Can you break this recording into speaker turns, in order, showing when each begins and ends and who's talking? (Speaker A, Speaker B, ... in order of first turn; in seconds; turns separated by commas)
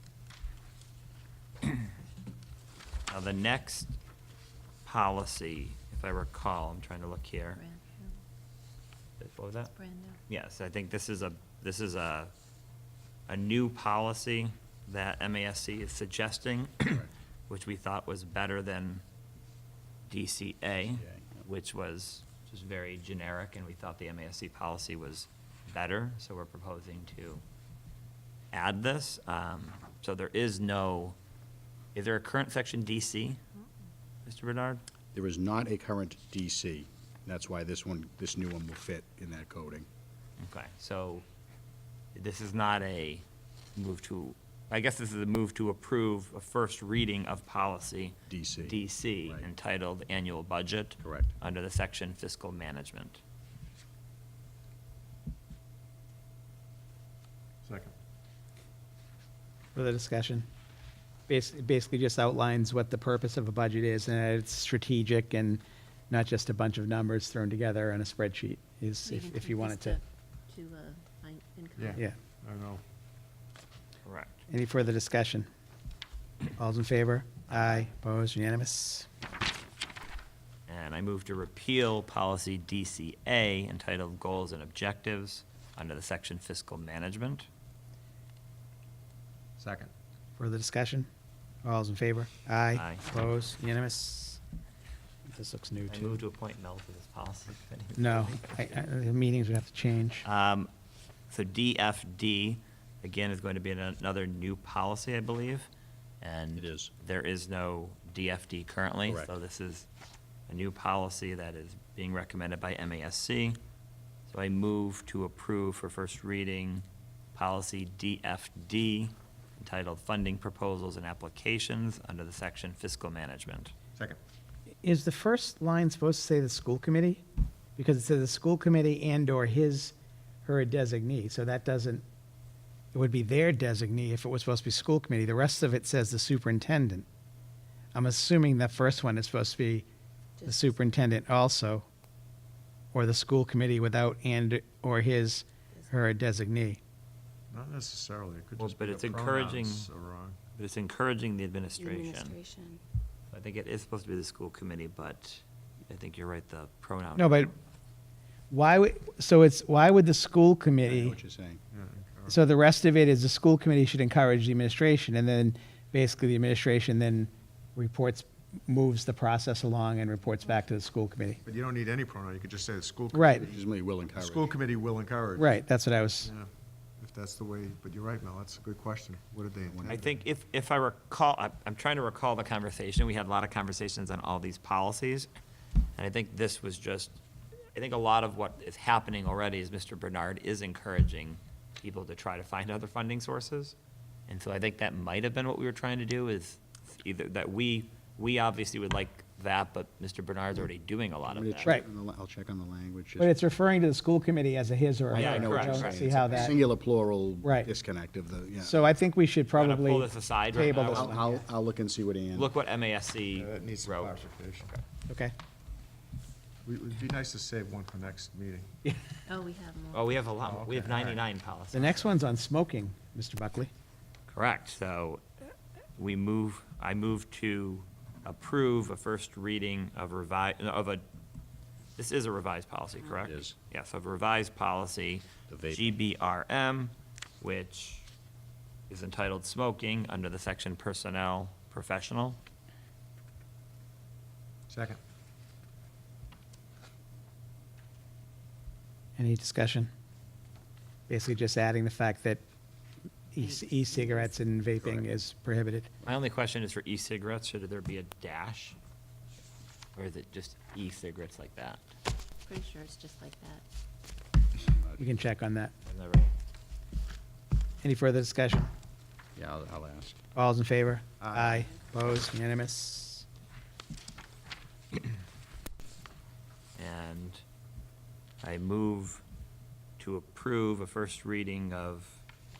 Speaker A: 3.1-3.9, Speaker A: 4.8-7.6, Speaker B: 7.5-8.2, Speaker A: 9.2-9.7, Speaker B: 9.7-10.2, Speaker A: 10.3-12.3, Speaker A: 13.3-19.0, Speaker A: 20.1-27.4, Speaker C: 20.9-21.4, Speaker A: 28.5-31.1, Speaker A: 31.9-33.4, Speaker A: 34.2-34.8, Speaker C: 35.1-39.9, Speaker A: 40.4-41.2, Speaker A: 42.1-43.2, Speaker A: 43.8-53.2, Speaker C: 48.3-49.5, Speaker C: 51.0-51.4, Speaker D: 57.6-57.9, Speaker E: 59.7-60.5, Speaker E: 61.3-70.0, Speaker B: 69.0-72.0, Speaker D: 71.8-72.8, Speaker A: 74.0-74.3, Speaker E: 74.5-75.5, Speaker E: 76.5-79.1, Speaker A: 77.5-77.9, Speaker A: 80.7-87.5, Speaker D: 89.6-89.9, Speaker E: 90.4-91.1, Speaker E: 91.6-94.4, Speaker A: 92.7-93.1, Speaker E: 95.3-96.2, Speaker A: 95.9-98.8, Speaker E: 97.9-100.2, Speaker A: 100.2-100.7, Speaker A: 101.3-105.7, Speaker A: 106.2-109.9, Speaker C: 106.5-106.9, Speaker C: 109.1-109.3, Speaker A: 110.5-113.6, Speaker A: 114.3-123.7, Speaker E: 124.8-127.2, Speaker E: 127.8-132.0, Speaker E: 132.9-137.1, Speaker E: 137.9-139.9, Speaker B: 140.4-140.7, Speaker E: 140.4-141.9, Speaker E: 142.9-146.8, Speaker D: 147.5-150.4, Speaker A: 148.6-149.9, Speaker A: 150.6-152.4, Speaker B: 151.8-152.8, Speaker A: 153.3-157.4, Speaker E: 157.2-157.5, Speaker E: 158.5-161.2, Speaker C: 160.8-161.6, Speaker D: 161.7-162.4, Speaker E: 162.3-171.4, Speaker D: 171.4-173.3, Speaker E: 173.1-173.4, Speaker C: 173.3-174.6, Speaker D: 174.2-175.6, Speaker E: 175.4-176.3, Speaker D: 176.2-180.0, Speaker C: 179.6-180.1, Speaker A: 179.9-185.3, Speaker A: 186.0-187.2, Speaker A: 187.7-193.8, Speaker A: 194.3-201.7, Speaker C: 201.3-203.3, Speaker E: 203.2-206.6, Speaker C: 205.1-208.8, Speaker A: 205.1-206.5, Speaker E: 207.4-207.7, Speaker E: 208.6-211.4, Speaker A: 209.5-211.3, Speaker C: 210.9-212.5, Speaker A: 212.3-214.8, Speaker D: 213.3-214.7, Speaker E: 215.1-215.3, Speaker D: 216.6-218.8, Speaker B: 219.3-220.2, Speaker A: 219.9-222.2, Speaker D: 220.4-221.2, Speaker E: 221.7-223.7, Speaker A: 224.3-231.0, Speaker A: 232.0-238.1, Speaker C: 233.2-233.6, Speaker C: 235.5-236.0, Speaker A: 238.9-242.4, Speaker D: 244.7-245.0, Speaker E: 249.2-249.9, Speaker E: 251.1-252.4, Speaker E: 253.3-255.9, Speaker B: 253.4-254.4, Speaker A: 256.0-258.8, Speaker A: 259.9-261.8, Speaker B: 262.4-263.6, Speaker C: 264.6-265.0, Speaker E: 265.0-265.7, Speaker A: 265.9-266.3, Speaker E: 267.8-268.7, Speaker C: 269.4-270.2, Speaker E: 270.3-273.2, Speaker A: 276.8-277.4, Speaker A: 278.4-279.2, Speaker A: 280.0-282.2